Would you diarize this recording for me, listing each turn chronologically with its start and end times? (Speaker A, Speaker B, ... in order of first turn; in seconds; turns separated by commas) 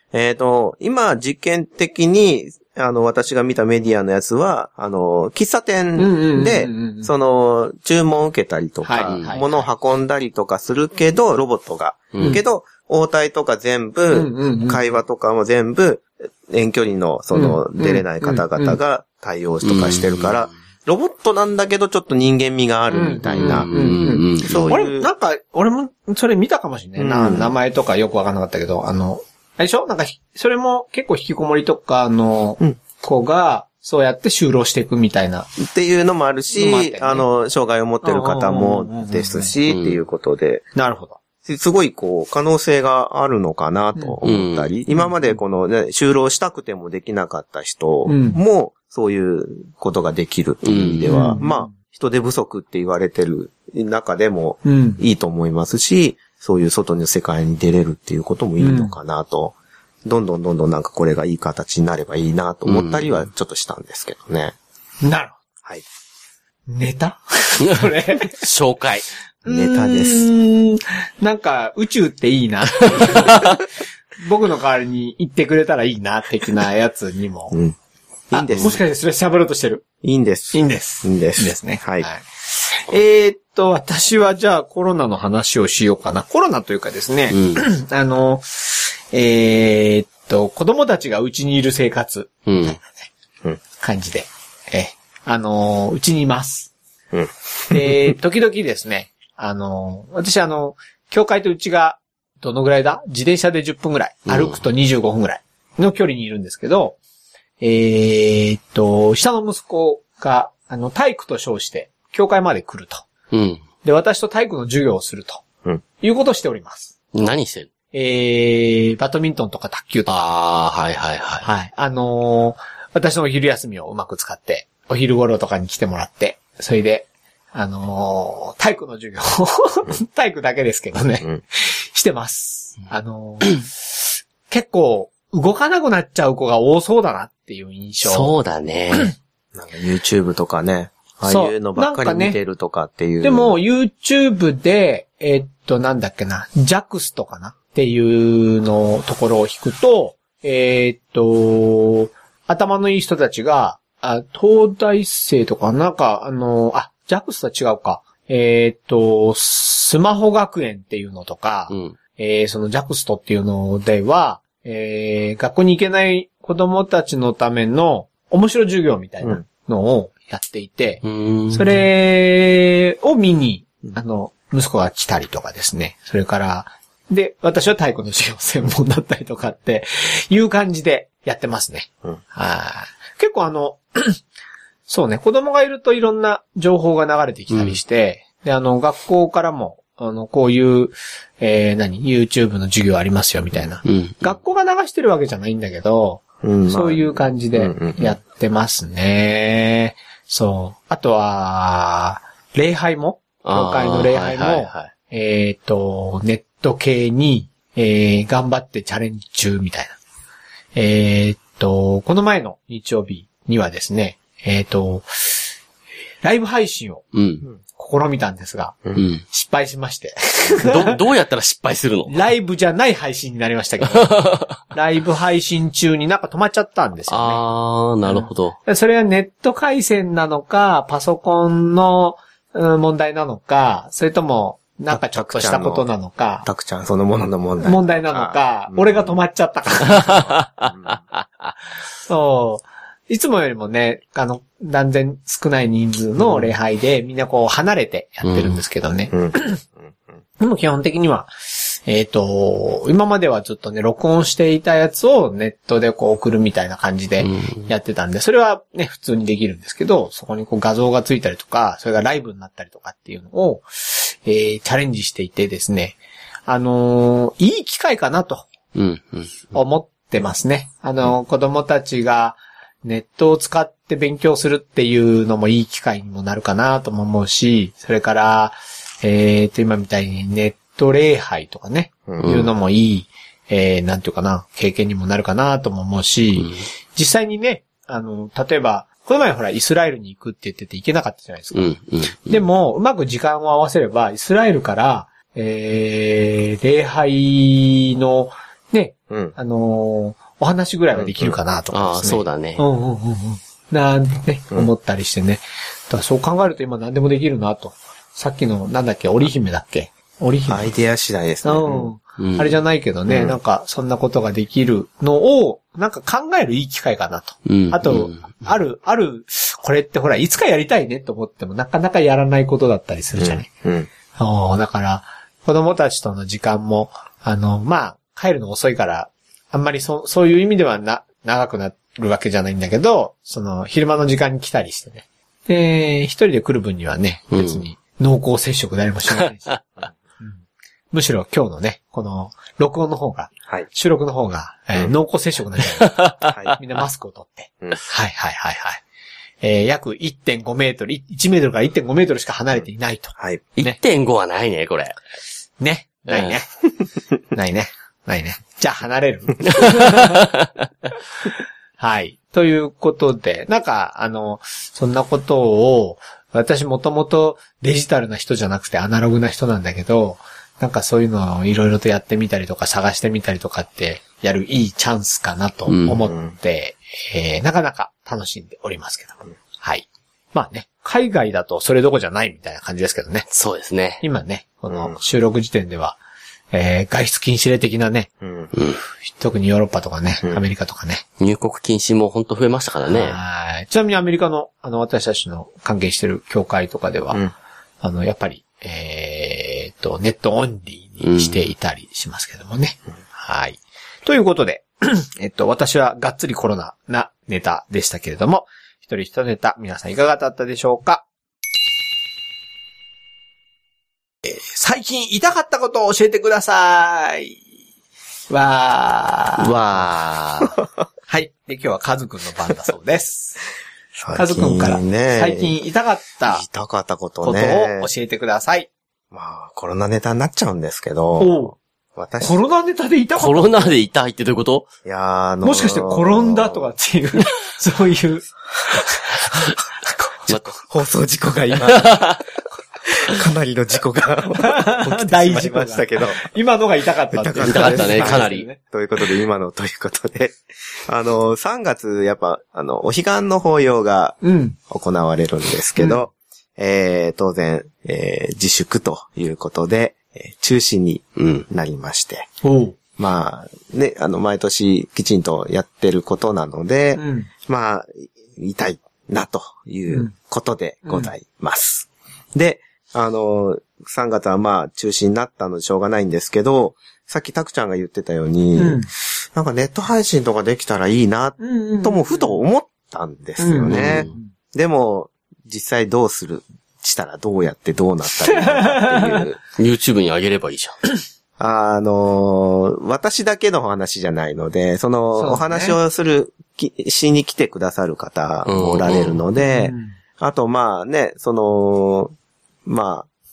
Speaker A: 0.1-25.1, Speaker B: 6.0-7.1, Speaker B: 8.8-9.7, Speaker C: 9.0-9.3, Speaker C: 12.1-12.4, Speaker B: 14.1-14.8, Speaker B: 17.3-18.8, Speaker C: 19.6-20.4, Speaker B: 22.9-35.5, Speaker C: 23.3-24.8, Speaker A: 27.0-27.5, Speaker A: 35.6-40.6, Speaker B: 36.5-37.2, Speaker B: 38.0-39.5, Speaker C: 39.7-40.0, Speaker B: 40.7-41.2, Speaker A: 41.4-64.5, Speaker C: 44.2-44.7, Speaker B: 44.9-45.4, Speaker B: 48.0-48.4, Speaker C: 50.6-51.3, Speaker B: 51.1-51.7, Speaker B: 54.6-55.0, Speaker B: 58.6-58.9, Speaker C: 62.6-63.2, Speaker B: 65.0-65.4, Speaker B: 66.7-68.4, Speaker C: 67.6-69.0, Speaker B: 69.4-73.6, Speaker A: 69.5-70.3, Speaker C: 72.9-73.5, Speaker B: 74.2-77.6, Speaker A: 78.3-78.8, Speaker B: 78.3-79.8, Speaker A: 80.0-82.1, Speaker B: 80.5-93.1, Speaker C: 87.3-87.6, Speaker C: 92.5-92.8, Speaker B: 93.8-96.7, Speaker A: 97.1-98.2, Speaker B: 97.7-107.0, Speaker C: 104.3-104.6, Speaker B: 107.6-113.0, Speaker C: 113.3-113.6, Speaker B: 113.8-115.4, Speaker B: 116.0-116.9, Speaker C: 117.1-117.7, Speaker B: 117.9-120.1, Speaker C: 120.1-121.5, Speaker B: 121.4-133.9, Speaker B: 134.5-138.3, Speaker C: 138.0-139.1, Speaker A: 139.5-143.5, Speaker B: 141.2-142.4, Speaker B: 143.2-184.2, Speaker C: 161.7-161.9, Speaker C: 171.0-171.9, Speaker B: 184.9-210.0, Speaker C: 187.5-187.8, Speaker C: 193.8-194.3, Speaker A: 196.4-198.2, Speaker C: 203.4-204.9, Speaker B: 210.7-215.5, Speaker B: 216.2-217.0, Speaker C: 217.1-217.4, Speaker B: 217.7-221.0, Speaker C: 218.9-219.2, Speaker C: 220.5-222.2, Speaker B: 222.1-227.4, Speaker C: 223.8-224.6, Speaker C: 227.1-228.6, Speaker B: 228.0-236.4, Speaker A: 234.9-235.9, Speaker A: 236.4-239.1, Speaker B: 237.6-240.3, Speaker C: 239.9-241.5, Speaker A: 240.7-241.0, Speaker B: 242.1-249.6, Speaker A: 246.2-246.5, Speaker C: 248.2-248.6, Speaker A: 249.1-250.0, Speaker B: 250.4-268.5, Speaker C: 257.2-257.7, Speaker C: 268.7-269.4, Speaker B: 269.5-310.7, Speaker A: 282.1-282.3, Speaker C: 282.2-282.5, Speaker C: 291.5-292.4, Speaker A: 299.1-299.3, Speaker A: 300.9-301.4, Speaker C: 301.7-302.6, Speaker A: 310.5-311.9, Speaker B: 311.4-323.5, Speaker C: 312.2-312.5, Speaker A: 313.1-313.4, Speaker C: 317.4-318.4, Speaker A: 323.2-323.9, Speaker B: 324.1-339.6, Speaker C: 337.3-337.6, Speaker C: 339.2-339.5, Speaker B: 340.2-348.8, Speaker C: 345.8-346.4, Speaker A: 346.3-346.6, Speaker B: 349.4-353.8, Speaker A: 353.2-353.4, Speaker C: 353.6-354.9, Speaker B: 355.6-356.5, Speaker C: 356.1-356.3, Speaker B: 357.3-360.2, Speaker C: 359.5-360.5, Speaker B: 361.8-383.2, Speaker C: 375.7-376.0, Speaker C: 383.3-384.0, Speaker B: 384.0-386.0, Speaker A: 384.7-385.0, Speaker B: 386.5-388.1, Speaker A: 388.2-388.5, Speaker C: 388.5-388.8, Speaker B: 389.0-391.0, Speaker C: 391.2-393.2, Speaker B: 392.9-397.2, Speaker B: 397.8-411.0, Speaker C: 401.0-401.5, Speaker B: 414.2-417.4, Speaker B: 418.3-419.6, Speaker C: 419.4-420.5, Speaker B: 421.1-423.4, Speaker A: 423.9-425.5, Speaker B: 424.1-426.4, Speaker A: 426.2-427.9, Speaker B: 427.2-428.7, Speaker A: 429.1-432.4, Speaker B: 431.2-431.6, Speaker B: 432.2-433.7, Speaker C: 433.1-434.7, Speaker A: 434.8-436.7, Speaker B: 435.4-439.3, Speaker A: 440.3-442.1, Speaker C: 440.3-440.5, Speaker C: 441.6-442.2, Speaker A: 442.9-446.2, Speaker B: 444.4-448.6, Speaker A: 447.1-462.3, Speaker C: 447.4-448.4, Speaker B: 454.2-454.6, Speaker B: 455.8-456.0, Speaker C: 461.2-461.4, Speaker B: 462.4-462.8, Speaker A: 463.0-489.4, Speaker B: 466.9-467.3, Speaker B: 470.8-471.1, Speaker B: 478.6-478.9, Speaker B: 481.4-482.4, Speaker B: 483.4-484.3, Speaker C: 483.7-484.1, Speaker B: 488.3-489.2, Speaker C: 489.6-490.7, Speaker A: 491.4-502.1, Speaker B: 495.2-495.8, Speaker C: 498.4-499.2, Speaker B: 499.4-499.9, Speaker A: 502.6-503.1